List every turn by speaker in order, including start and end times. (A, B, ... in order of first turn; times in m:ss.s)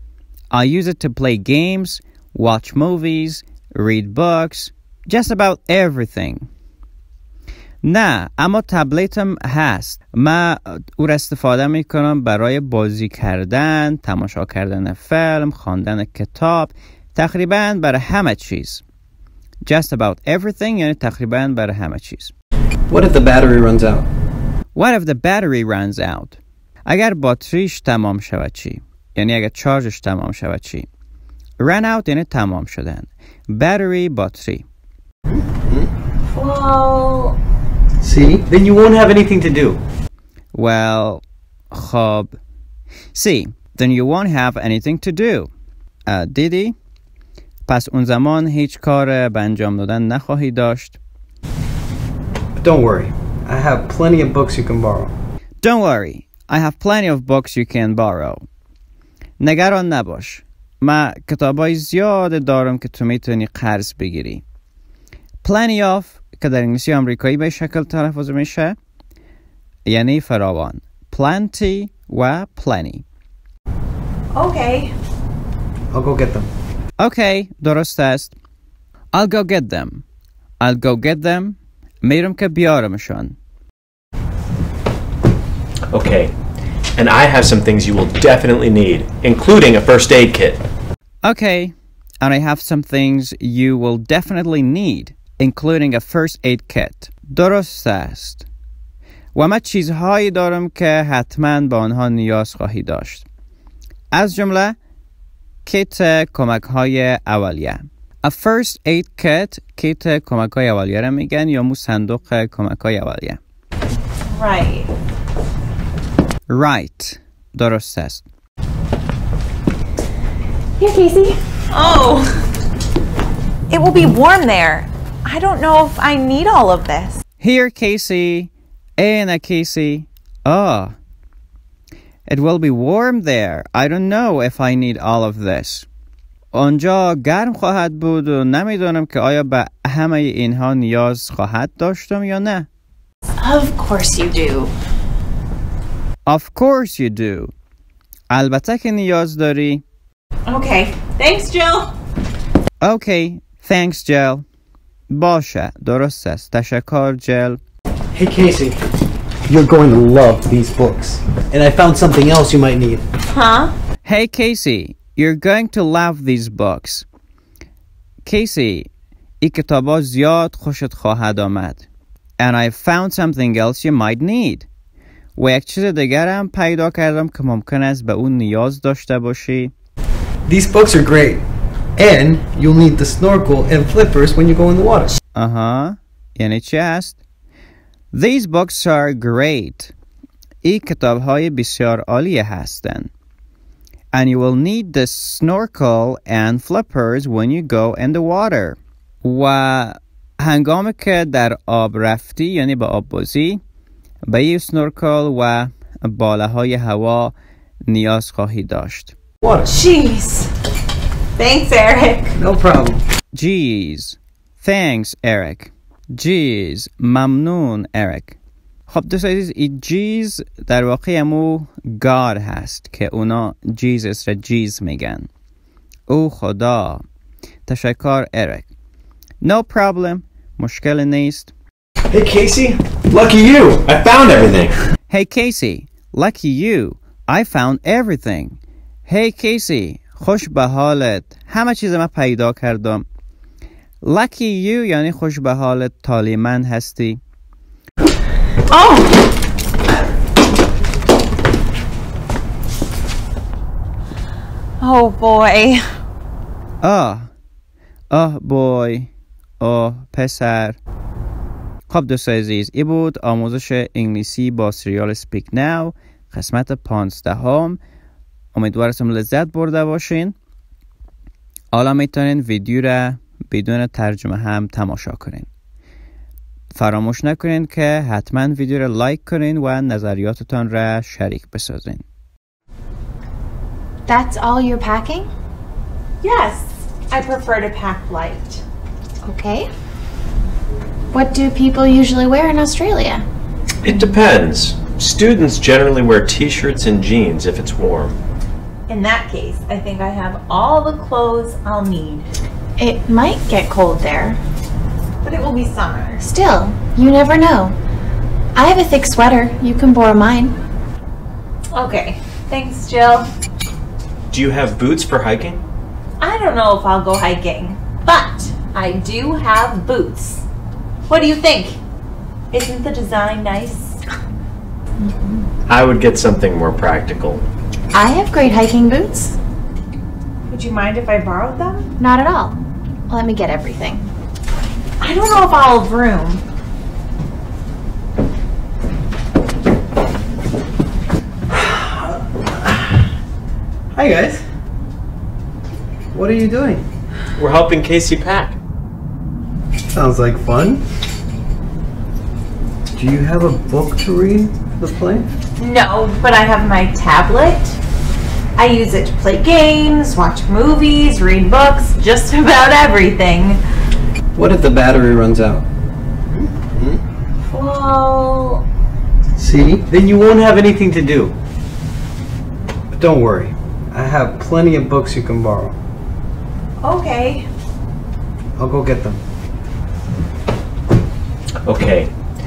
0:00.5-0:06.5 A
0:07.8-0:18.8 A
0:19.6-0:22.3 A
0:22.9-0:24.1 B
0:24.8-0:30.9 A
0:31.6-0:34.7 A
0:35.3-0:35.9 B
0:36.3-0:37.4 C
0:38.0-0:39.8 B
0:40.5-0:42.4 A
0:43.1-0:45.5 A
0:46.1-0:46.8 A
0:47.7-0:51.0 A
0:52.6-0:55.1 B
0:55.6-0:58.4 A
0:59.4-1:04.4 A
1:05.4-1:08.8 A
1:09.9-1:13.0 A
1:14.4-1:14.9 C
1:15.9-1:16.5 B
1:17.0-1:18.4 A
1:19.1-1:20.0 A
1:20.6-1:23.4 A
1:25.9-1:26.3 D
1:27.0-1:30.6 D
1:31.2-1:38.5 A
1:39.3-1:43.3 A
1:44.1-1:44.8 A
1:45.7-1:53.4 A
1:54.3-1:54.9 C
1:56.5-1:58.3 A
2:00.8-2:01.4 E
2:01.7-2:02.4 C
2:03.7-2:07.2 C
2:07.4-2:11.0 A
2:12.3-2:15.9 A
2:16.5-2:22.7 A
2:23.4-2:24.7 E
2:26.3-2:27.5 A
2:28.3-2:29.8 A
2:30.5-2:31.9 C
2:32.8-2:34.4 A
2:35.1-2:37.6 A
2:38.1-2:38.8 B
2:39.5-2:43.0 B
2:43.3-2:43.7 C
2:44.0-2:47.1 A
2:48.2-2:48.9 A
2:49.4-2:51.9 A
2:52.4-2:54.7 A
2:55.4-2:59.7 A
3:00.5-3:01.4 B
3:02.0-3:05.2 B
3:05.4-3:07.2 A
3:08.1-3:09.9 A
3:10.6-3:13.1 A
3:14.1-3:23.6 A
3:24.3-3:27.4 A
3:27.9-3:29.2 A
3:29.4-3:29.7 B
3:29.6-3:30.5 C
3:31.4-3:32.4 C
3:32.4-3:33.0 B
3:33.3-3:38.4 A
3:38.9-3:45.3 A
3:46.1-3:47.0 A
3:47.7-3:48.7 A
3:49.4-3:51.5 A
3:52.1-3:54.7 D
3:55.1-4:03.0 A
4:04.0-4:07.2 A
4:08.7-4:09.3 C
4:14.8-4:15.8 C
4:16.8-4:17.3 A
4:18.1-4:20.8 A
4:21.9-4:27.8 A
4:28.5-4:30.4 A
4:31.7-4:35.5 A
4:36.7-4:42.0 A
4:44.1-4:45.3 E
4:46.2-4:48.6 C
4:49.2-4:49.7 E
4:51.1-4:53.3 E
4:53.8-4:58.2 D
4:58.9-5:02.3 C
5:02.8-5:04.4 E
5:05.2-5:06.2 C
5:06.2-5:07.8 E
5:08.6-5:10.6 E
5:11.7-5:13.3 C
5:14.3-5:15.6 D
5:16.2-5:20.4 C
5:21.1-5:21.8 C
5:22.5-5:24.0 C
5:25.0-5:25.5 E
5:25.7-5:27.4 D
5:27.9-5:29.4 E
5:30.5-5:31.9 C
5:32.0-5:34.1 E
5:35.0-5:36.4 C
5:41.5-5:43.0 B
5:44.0-5:44.4 B
5:46.1-5:46.9 B
5:47.4-5:48.6 D
5:50.0-5:50.8 B
5:53.0-5:55.3 B
5:55.6-5:57.8 C
5:58.6-6:03.6 C
6:04.4-6:05.6 B
6:06.3-6:07.0 B
6:07.5-6:08.6 C
6:09.4-6:11.3 B
6:12.9-6:15.8 B
6:16.8-6:17.5 C
6:18.6-6:19.2 B
6:21.6-6:22.1 D